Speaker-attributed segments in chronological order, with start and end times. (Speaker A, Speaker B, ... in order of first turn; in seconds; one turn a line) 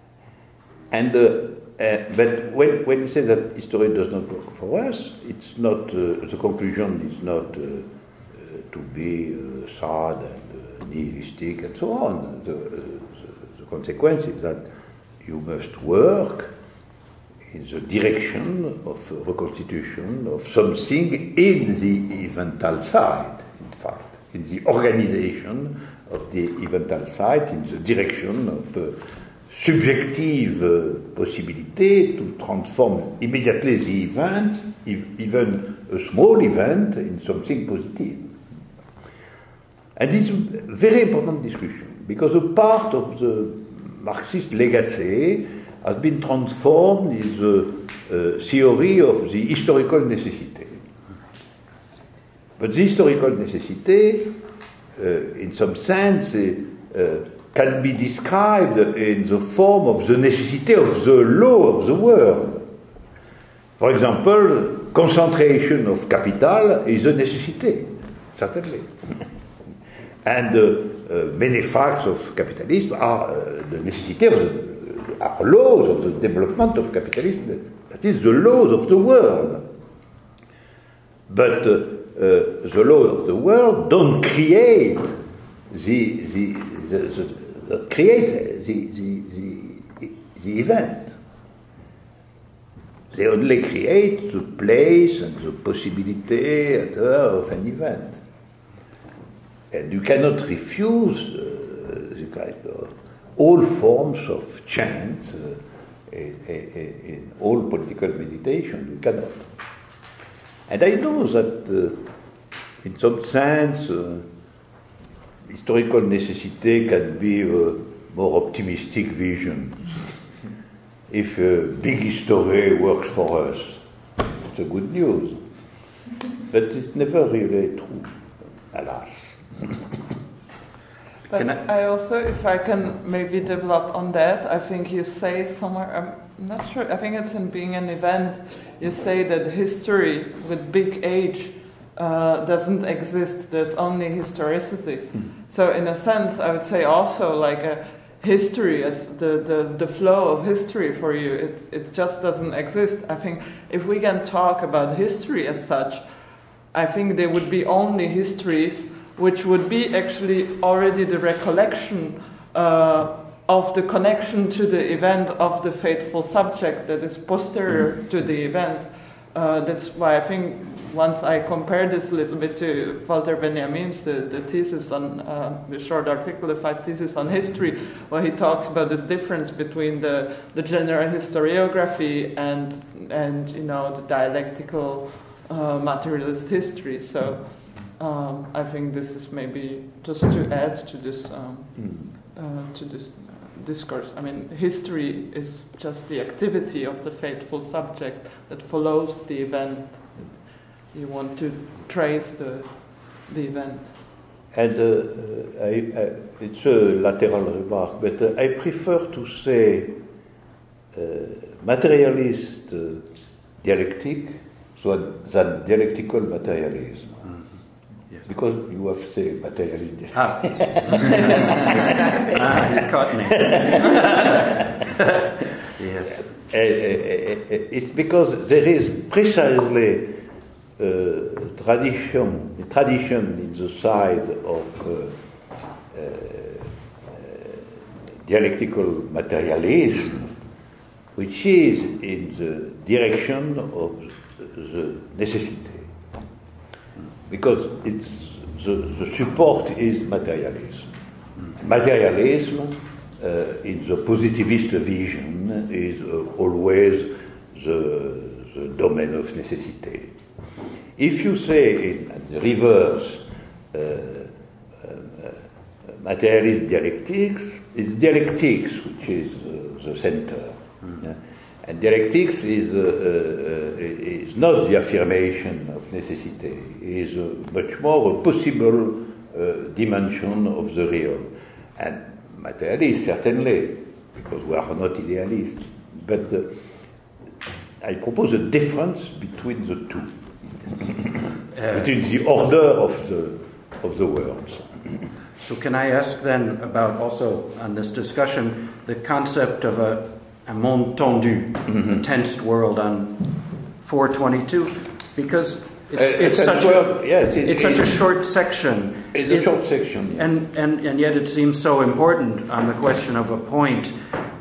Speaker A: 0.9-14.7
Speaker A: 15.2-16.5
Speaker A: 17.5-38.3
Speaker A: 40.0-50.8
Speaker A: 52.6-54.4
Speaker A: 55.0-62.7
Speaker A: 63.8-69.2
Speaker A: 70.2-79.7
Speaker A: 81.3-85.2
Speaker A: 85.7-91.2
Speaker A: 93.1-98.2
Speaker A: 99.7-109.5
Speaker A: 110.7-112.0
Speaker A: 112.8-114.3
Speaker A: 115.5-120.0
Speaker A: 121.1-123.8
Speaker A: 124.4-125.4
Speaker A: 126.5-128.2
Speaker A: 128.7-129.8
Speaker B: 131.3-156.0
Speaker C: 131.3-131.6
Speaker B: 156.7-203.9
Speaker A: 191.8-192.1
Speaker A: 204.5-210.0
Speaker A: 210.9-213.0
Speaker A: 213.6-217.3
Speaker A: 218.2-223.9
Speaker C: 220.1-224.4
Speaker C: 225.8-226.1
Speaker A: 226.1-230.2
Speaker A: 230.8-235.1
Speaker A: 235.9-237.7
Speaker A: 238.2-240.3
Speaker A: 241.1-245.9
Speaker A: 247.3-250.9
Speaker A: 251.5-260.1
Speaker A: 260.9-286.5
Speaker A: 287.8-291.1
Speaker C: 291.5-291.9
Speaker A: 291.7-294.7
Speaker C: 295.4-309.5
Speaker A: 305.9-308.0
Speaker A: 309.1-310.3
Speaker C: 310.1-313.9